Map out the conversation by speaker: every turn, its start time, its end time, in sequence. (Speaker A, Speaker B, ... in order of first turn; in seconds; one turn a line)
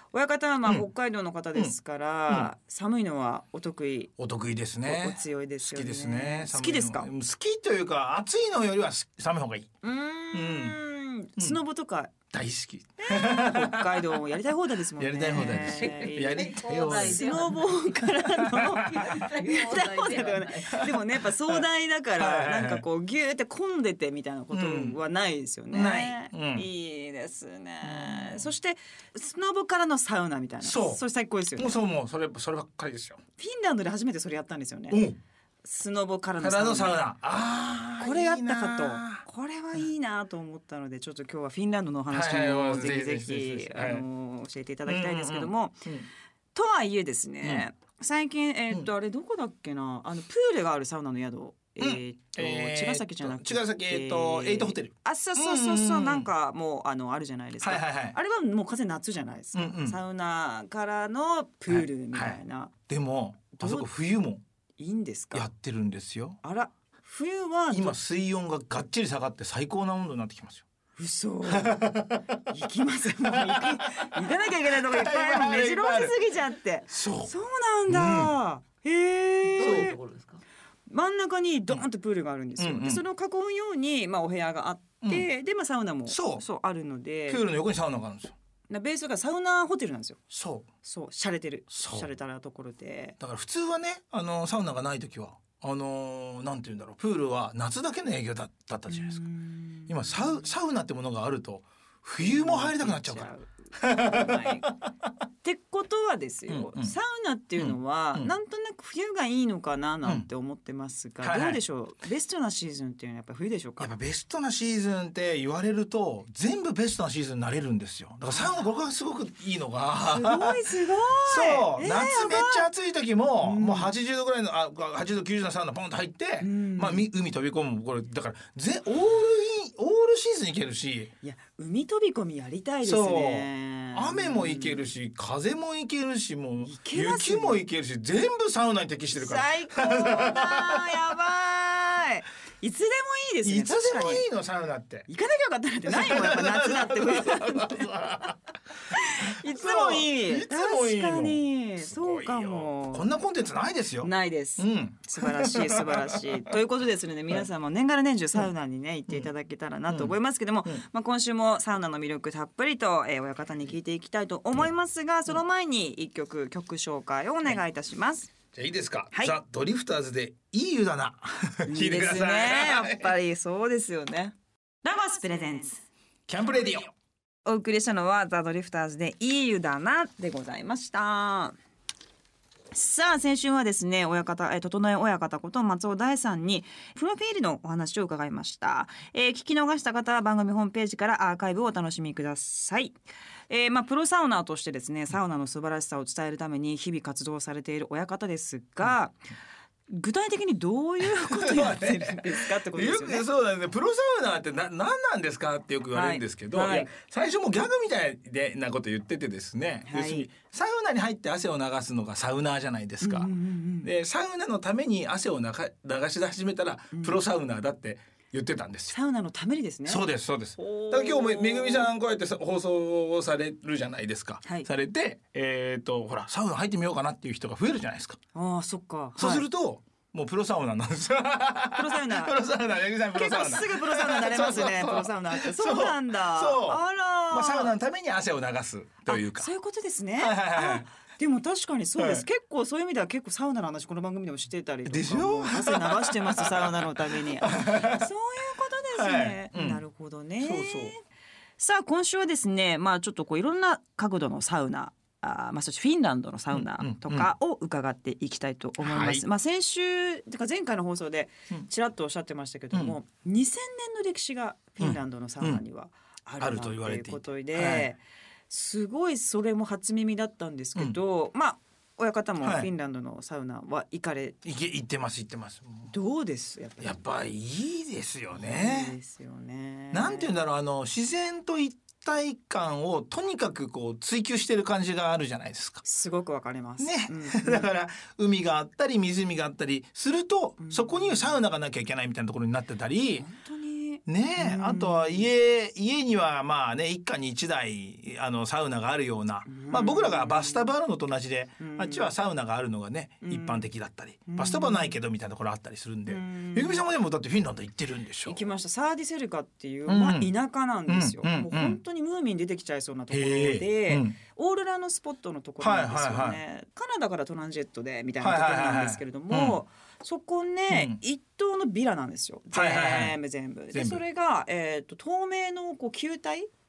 Speaker A: 0.1-4.1
Speaker B: 4.2-9.7
Speaker A: 4.8-7.1
Speaker A: 9.8-12.1
Speaker B: 10.3-10.8
Speaker B: 12.3-14.2
Speaker A: 13.0-31.8
Speaker B: 15.0-17.5
Speaker C: 15.3-20.9
Speaker B: 18.3-19.3
Speaker B: 20.7-21.6
Speaker B: 22.2-22.9
Speaker B: 24.5-25.0
Speaker B: 25.7-26.7
Speaker B: 27.8-28.5
Speaker B: 30.6-31.0
Speaker B: 31.6-33.2
Speaker A: 33.4-35.0
Speaker B: 34.9-35.2
Speaker A: 35.6-37.0
Speaker B: 36.4-39.2
Speaker A: 38.0-45.9
Speaker B: 42.1-44.0
Speaker B: 44.9-46.1
Speaker A: 46.5-62.7
Speaker B: 51.8-56.3
Speaker B: 57.6-58.2
Speaker B: 59.5-60.0
Speaker B: 61.7-64.4
Speaker A: 63.6-63.9
Speaker A: 64.8-65.5
Speaker B: 65.3-66.4
Speaker A: 66.4-68.0
Speaker B: 67.7-70.7
Speaker A: 71.0-71.9
Speaker B: 71.5-72.4
Speaker A: 72.5-80.0
Speaker B: 73.2-76.2
Speaker B: 76.9-77.3
Speaker B: 77.9-78.3
Speaker C: 79.5-80.4
Speaker B: 79.6-80.0
Speaker A: 80.9-87.4
Speaker B: 82.6-83.0
Speaker B: 85.0-85.3
Speaker B: 86.1-86.4
Speaker B: 87.3-88.3
Speaker A: 88.7-90.2
Speaker B: 90.3-90.7
Speaker A: 90.8-93.2
Speaker B: 91.7-92.1
Speaker B: 93.2-99.2
Speaker A: 98.9-100.5
Speaker B: 99.9-104.9
Speaker A: 102.2-104.7
Speaker A: 105.4-113.9
Speaker B: 106.5-107.0
Speaker B: 107.6-108.3
Speaker B: 111.2-111.6
Speaker B: 113.8-120.7
Speaker A: 118.3-118.6
Speaker A: 120.1-122.7
Speaker B: 121.2-131.1
Speaker A: 123.4-123.9
Speaker A: 126.4-127.1
Speaker A: 131.2-134.8
Speaker B: 132.8-141.0
Speaker A: 136.6-137.6
Speaker A: 139.1-144.2
Speaker B: 143.4-145.1
Speaker A: 145.1-147.8
Speaker B: 145.8-156.6
Speaker A: 148.9-153.1
Speaker A: 154.0-168.3
Speaker B: 159.9-160.8
Speaker B: 168.5-173.2
Speaker A: 171.7-175.8
Speaker B: 176.3-176.9
Speaker A: 177.4-181.6
Speaker A: 182.7-199.2
Speaker A: 199.9-203.3
Speaker B: 201.0-213.3
Speaker A: 205.9-206.9
Speaker A: 209.9-210.3
Speaker A: 213.0-213.9
Speaker B: 213.8-219.0
Speaker A: 216.9-217.2
Speaker A: 218.9-220.1
Speaker B: 219.9-228.2
Speaker A: 220.6-221.9
Speaker A: 224.4-224.7
Speaker A: 228.3-229.5
Speaker B: 229.2-239.5
Speaker A: 231.7-232.4
Speaker A: 233.1-237.7
Speaker A: 239.1-251.0
Speaker B: 240.2-240.9
Speaker B: 242.0-242.2
Speaker B: 244.9-248.1
Speaker B: 248.9-249.8
Speaker B: 250.4-250.9
Speaker A: 251.6-274.4
Speaker B: 256.5-257.3
Speaker B: 258.8-259.2
Speaker B: 264.8-265.6
Speaker B: 266.4-267.9
Speaker B: 272.4-272.7
Speaker B: 274.4-275.9
Speaker A: 275.9-277.0
Speaker B: 276.8-279.0
Speaker A: 278.4-280.3
Speaker B: 279.9-285.8
Speaker A: 285.8-287.7
Speaker B: 286.8-293.3
Speaker A: 290.6-291.4
Speaker A: 293.2-295.3
Speaker B: 294.1-308.4
Speaker A: 299.5-300.7
Speaker A: 301.6-302.1
Speaker A: 303.2-303.7
Speaker A: 304.3-305.0
Speaker A: 306.1-306.9
Speaker A: 308.2-326.5
Speaker B: 309.9-310.4
Speaker B: 310.9-311.8
Speaker B: 313.1-314.2
Speaker B: 315.6-316.4
Speaker B: 318.2-319.6
Speaker B: 320.7-321.0
Speaker B: 322.5-323.2
Speaker B: 323.7-324.0